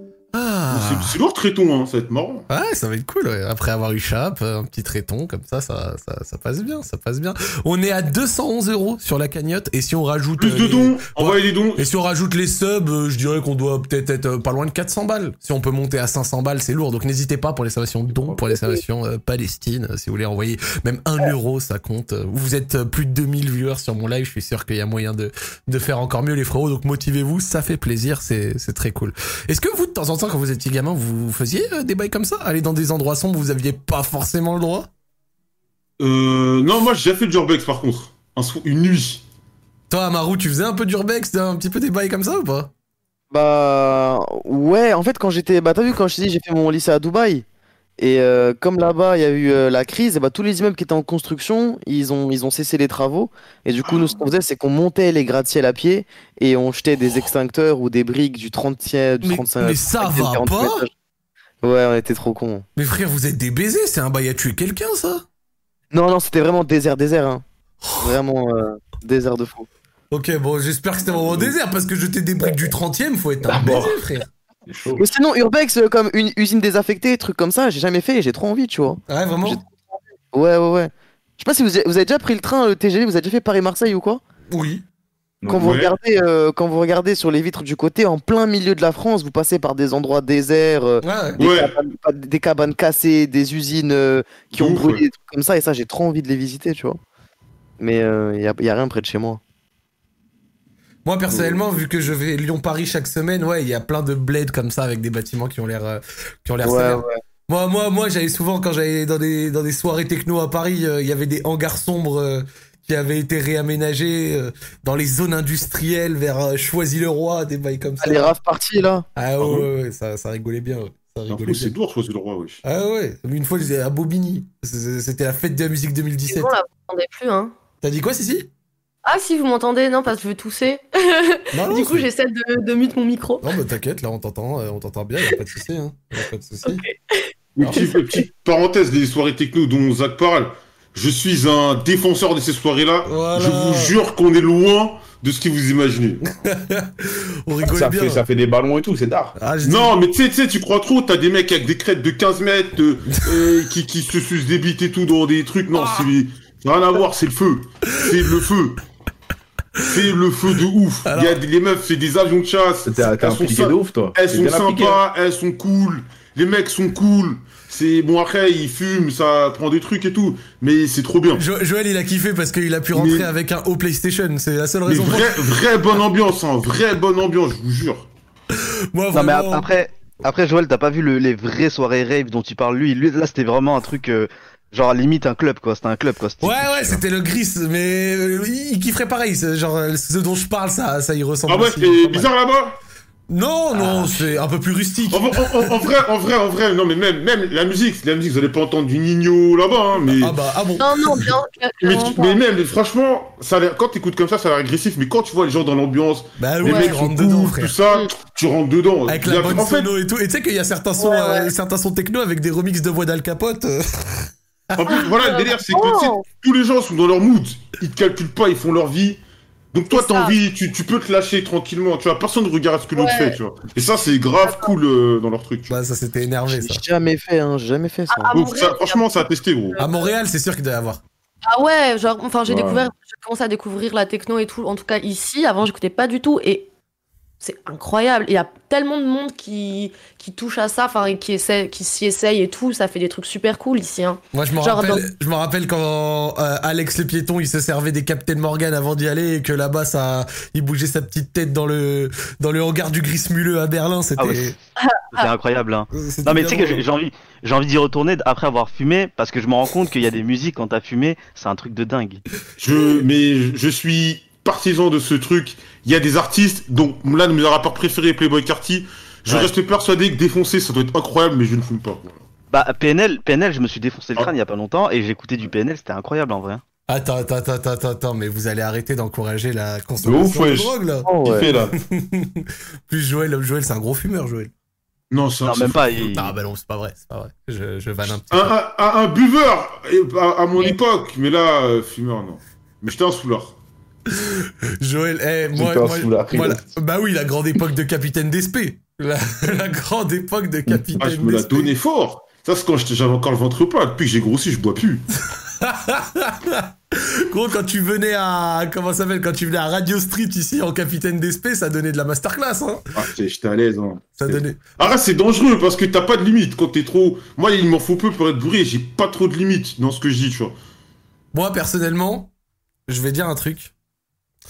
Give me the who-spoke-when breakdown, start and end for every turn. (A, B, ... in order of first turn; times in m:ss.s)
0:00.3-0:01.2 A
0:00.7-0:02.5 B
0:02.5-0:34.9 A
0:10.4-0:11.9 B
0:18.2-0:18.6 C
0:36.0-0:39.2 B
0:39.9-0:42.7 A
0:43.3-0:47.4 D
0:48.0-1:00.9 D
0:59.2-1:00.8 A
1:01.6-1:02.6 D
1:02.8-1:05.2 A
1:05.9-1:07.4 D
1:08.0-1:09.7 D
1:10.1-1:14.3 A
1:11.1-1:11.6 C
1:13.4-1:14.0 C
1:14.7-1:15.0 C
1:15.0-1:24.2 D
1:19.1-1:19.6 A
1:24.5-1:24.8 A
1:25.4-1:25.7 C
1:25.5-1:37.0 D
1:25.6-1:26.0 B
1:31.0-1:31.4 A
1:31.4-1:31.8 B
1:34.6-1:35.0 B
1:37.8-1:39.4 D
1:41.0-1:58.4 A
1:46.6-1:47.2 D
1:58.0-1:59.1 D
1:59.2-2:01.8 A
1:59.4-1:59.7 B
2:01.3-2:02.6 B
2:02.6-2:06.5 A
2:06.3-2:07.5 E
2:07.8-2:08.5 A
2:09.0-2:13.5 E
2:11.5-2:12.1 A
2:13.4-2:16.8 A
2:16.6-2:18.0 E
2:17.6-2:26.2 B
2:17.6-2:17.9 A
2:23.1-2:23.9 A
2:26.4-2:28.2 A
2:27.6-2:29.4 C
2:29.4-2:30.0 A
2:29.6-2:38.8 B
2:35.7-2:36.1 A
2:39.8-2:51.4 B
2:41.1-2:41.4 A
2:42.9-2:45.0 C
2:51.4-2:55.5 A
2:52.9-2:53.3 B
2:54.9-2:58.1 B
2:58.5-2:59.7 A
2:59.1-3:07.0 F
3:06.4-3:12.3 A
3:11.5-3:12.8 B
3:13.3-3:15.9 A
3:13.7-3:14.4 F
3:15.1-3:20.4 B
3:20.2-3:21.3 A
3:20.8-3:22.4 E
3:21.8-3:29.9 B
3:26.4-3:27.8 A
3:26.6-3:26.9 E
3:29.1-3:34.9 A
3:31.0-3:31.5 E
3:34.8-3:39.2 B
3:34.9-3:36.2 E
3:39.7-3:45.7 B
3:39.9-3:40.4 E
3:43.0-3:43.4 E
3:44.4-3:44.7 E
3:45.7-3:46.8 A
3:46.5-3:48.5 D
3:48.1-3:50.1 E
3:48.3-3:49.8 B
3:49.8-3:51.0 A
3:51.4-3:56.7 E
3:52.5-3:52.9 C
3:57.4-4:05.1 E
4:04.3-4:14.6 A
4:14.2-4:14.6 F
4:14.8-4:15.3 E
4:15.1-4:22.2 F
4:15.9-4:16.8 A
4:22.6-4:32.2 B
4:32.5-4:36.6 F
4:36.9-4:41.1 A
4:40.0-4:41.8 C
4:41.1-4:41.5 D
4:41.8-4:44.5 A
4:45.1-4:45.9 B
4:45.4-4:46.3 F
4:46.1-4:48.6 A
4:48.1-4:53.6 B
4:54.1-5:01.7 A
4:55.5-4:56.7 C
5:00.7-5:00.9 C
5:01.0-5:05.0 B
5:05.6-5:12.8 A
5:13.0-5:20.6 B
5:14.2-5:14.7 A
5:21.3-5:22.3 A
5:22.9-5:23.7 A